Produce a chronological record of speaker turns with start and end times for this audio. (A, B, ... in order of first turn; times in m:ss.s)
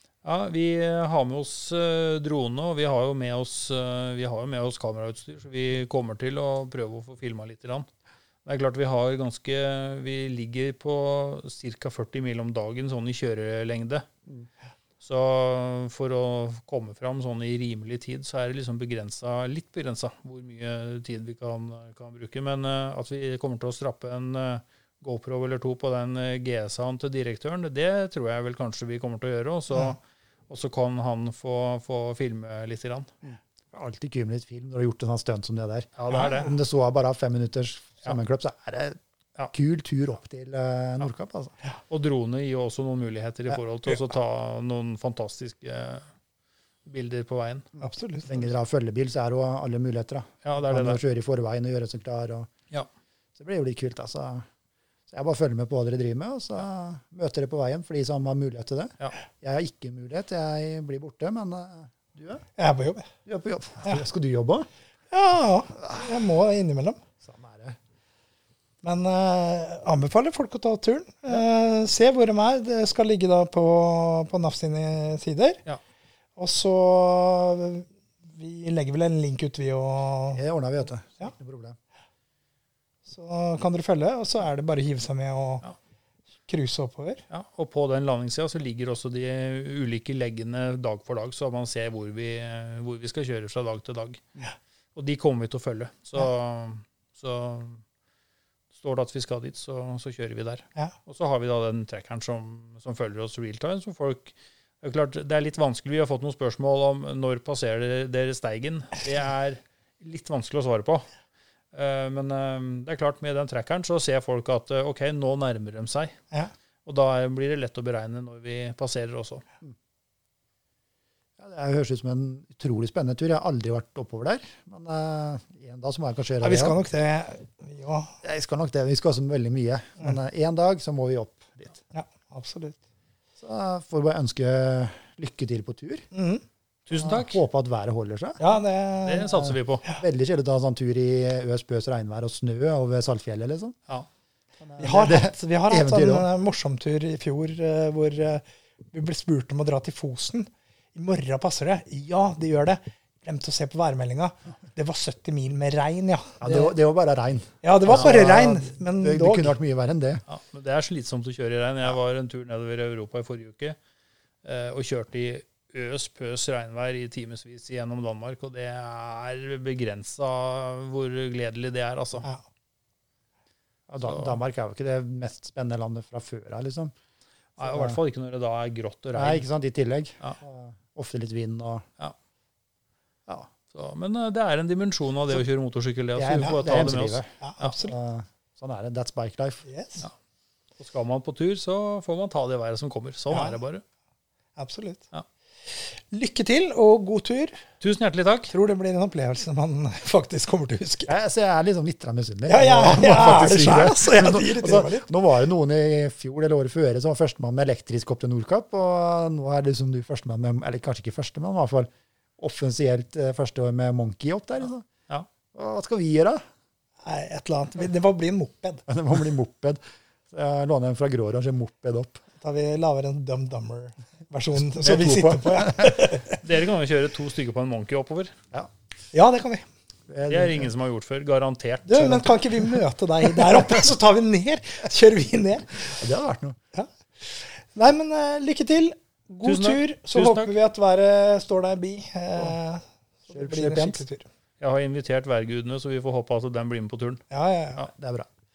0:00.2-0:07.9 A
0:08.4-0:14.0 A
0:15.0-0:33.1 A
0:33.2-0:39.0 B
0:36.0-0:36.5 A
0:39.5-0:41.5 B
0:41.9-0:46.0 A
0:46.8-0:47.7 A
0:47.8-0:48.3 C
0:48.2-0:52.5 B
0:50.4-0:51.0 A
0:53.4-0:54.4 B
0:55.1-1:02.4 B
1:02.6-1:03.1 C
1:03.2-1:04.7 B
1:05.1-1:07.0 C
1:07.2-1:07.8 B
1:08.8-1:15.6 C
1:16.4-1:20.4 C
1:20.3-1:21.8 B
1:23.1-1:25.6 C
1:26.4-1:27.2 C
1:27.3-1:34.4 A
1:34.9-1:37.8 A
1:38.7-1:51.0 A
1:51.7-1:56.2 A
1:56.8-1:59.4 A
2:01.4-2:06.8 B
2:06.4-2:08.1 C
2:08.2-2:11.8 B
2:11.9-2:12.8 C
2:13.4-2:16.1 B
2:16.1-2:16.4 C
2:16.8-2:17.4 A
2:16.9-2:18.4 B
2:18.4-2:20.0 C
2:19.0-2:19.8 A
2:19.3-2:23.8 B
2:24.6-2:26.3 B
2:24.8-2:36.7 C
2:36.4-2:40.2 B
2:37.6-2:39.6 C
2:37.9-2:38.2 A
2:40.3-2:43.8 A
2:44.4-2:52.3 A
2:53.9-2:56.9 B
2:54.0-2:54.4 A
2:57.6-2:58.0 B
2:57.6-2:59.5 A
2:59.1-3:01.8 B
3:03.7-3:07.8 A
3:06.1-3:09.6 B
3:07.4-3:07.9 C
3:09.6-3:10.1 C
3:10.8-3:13.8 A
3:13.3-3:13.6 C
3:14.6-3:15.0 C
3:15.7-3:17.6 C
3:17.8-3:18.5 A
3:18.5-3:21.1 C
3:21.1-3:34.8 B
3:22.5-3:25.1 C
3:35.5-3:36.4 B
3:37.0-3:38.8 C
3:38.9-3:39.8 B
3:40.3-3:42.2 B
3:42.4-3:46.4 C
3:44.8-3:46.1 B
3:46.4-3:48.3 A
3:49.1-3:49.6 C
3:50.1-3:50.7 B
3:50.3-3:52.3 A
3:51.8-3:55.9 C
3:55.9-3:56.6 B
3:56.7-4:04.2 C
3:59.4-4:00.5 A
4:03.3-4:04.0 B
4:04.6-4:07.2 A
4:07.3-4:07.8 C
4:07.9-4:08.3 B